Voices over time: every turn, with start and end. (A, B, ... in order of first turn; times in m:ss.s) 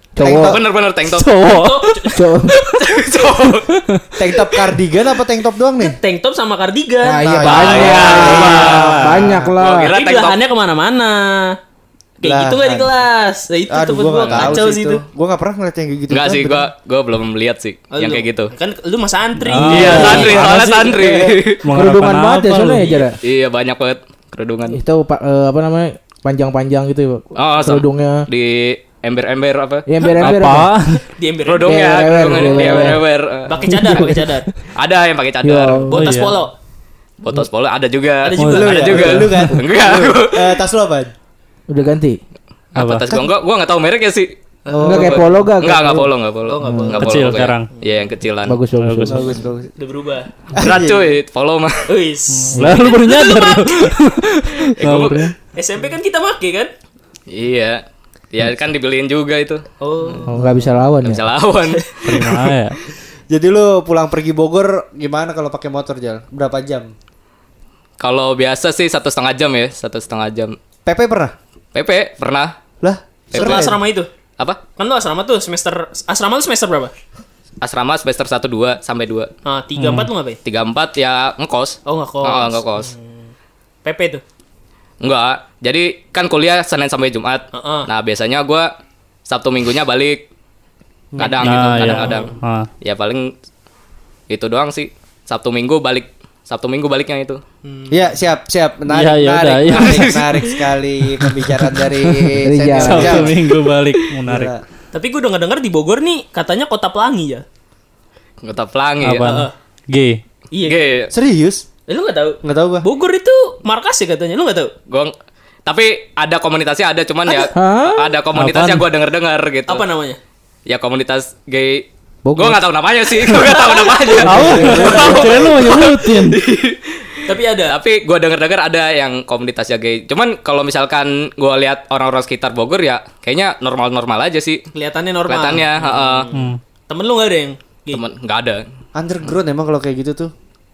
0:00.1-0:00.6 A
0:00.2-0:00.6 B
0:00.2-0:01.3 C
0:01.0-0:02.2 D
0:01.5-0:03.2 E
0:02.1-0:02.5 A
0:02.8-0:03.8 C
0:03.9-0:04.2 D
0:04.2-0:06.0 B
0:05.8-0:09.0 E
0:07.0-0:09.9 A
0:07.1-0:09.5 B
0:07.4-0:10.4 C
0:09.9-0:11.6 E
0:12.2-0:15.0 E
0:12.2-0:12.9 B
0:13.7-0:16.6 B
0:14.3-0:14.6 C
0:16.1-0:18.5 C
0:17.9-0:20.4 E
0:19.4-0:21.0 D
0:19.7-0:21.6 C
0:19.7-0:21.0 A
0:21.6-0:22.9 D
0:21.7-0:23.2 A
0:23.2-0:24.8 C
0:24.7-0:28.3 A
0:27.4-0:30.3 C
0:29.9-0:30.7 A
0:30.2-0:31.0 D
0:31.1-0:31.8 E
0:31.4-0:33.6 C
0:31.6-0:33.0 A
0:32.4-0:34.5 E
0:33.7-0:34.2 A
0:34.8-0:35.9 C
0:35.4-0:36.0 A
0:35.9-0:36.5 E
0:35.9-0:36.4 D
0:37.2-0:40.6 C
0:38.2-0:39.2 E
0:38.4-0:39.5 D
0:38.5-0:41.1 B
0:41.7-0:42.2 A
0:42.8-0:44.3 C
0:42.8-0:43.2 D
0:44.7-0:45.1 E
0:44.7-0:45.3 B
0:44.8-0:46.1 A
0:44.9-0:48.6 C
0:46.5-0:47.9 E
0:46.6-0:46.9 A
0:46.9-0:47.7 D
0:48.5-0:49.4 A
0:48.8-0:49.3 D
0:49.1-0:49.7 B
0:49.8-0:50.3 E
0:50.5-0:51.1 B
0:50.6-0:51.9 C
0:51.9-0:54.0 E
0:52.3-0:55.3 D
0:52.6-0:52.8 A
0:54.8-0:55.2 C
0:55.5-0:56.7 E
0:57.3-0:59.6 C
0:59.8-1:00.3 E
1:00.3-1:01.2 A
1:01.0-1:02.3 C
1:02.0-1:02.8 D
1:03.3-1:06.9 B
1:08.0-1:10.6 C
1:10.9-1:11.3 B
1:11.7-1:12.5 C
1:12.8-1:13.8 B
1:13.3-1:13.7 C
1:13.3-1:14.1 E
1:14.8-1:16.9 E
1:17.6-1:19.3 C
1:19.4-1:20.4 E
1:19.8-1:20.1 D
1:20.4-1:22.9 C
1:21.9-1:23.0 E
1:23.8-1:24.2 E
1:25.0-1:28.7 C
1:27.5-1:27.9 E
1:29.3-1:30.2 C
1:31.2-1:32.3 E
1:31.2-1:32.3 C
1:31.4-1:32.7 D
1:32.8-1:33.3 C
1:34.3-1:37.4 C
1:37.6-1:38.2 E
1:37.9-1:43.5 B
1:38.9-1:40.2 D
1:39.7-1:40.6 C
1:41.2-1:44.5 D
1:42.4-1:43.3 A
1:44.2-1:44.6 B
1:44.9-1:47.4 E
1:48.4-1:49.3 C
1:49.0-1:50.2 D
1:49.2-1:49.5 E
1:50.5-1:51.0 E
1:50.6-1:51.1 C
1:51.1-1:51.6 B
1:51.9-1:54.7 E
1:52.4-1:52.9 B
1:54.9-1:55.1 C
1:55.6-1:59.8 C
1:57.3-1:57.5 E
1:57.5-1:58.1 A
1:58.3-1:58.9 D
1:59.7-2:00.2 E
2:00.7-2:14.6 C
2:02.2-2:02.6 A
2:03.3-2:05.4 E
2:04.2-2:06.4 D
2:04.2-2:05.2 A
2:04.5-2:05.2 B
2:07.2-2:07.8 E
2:14.7-2:18.0 E
2:15.3-2:16.3 C
2:16.3-2:16.6 D
2:17.9-2:18.6 C
2:19.0-2:20.3 B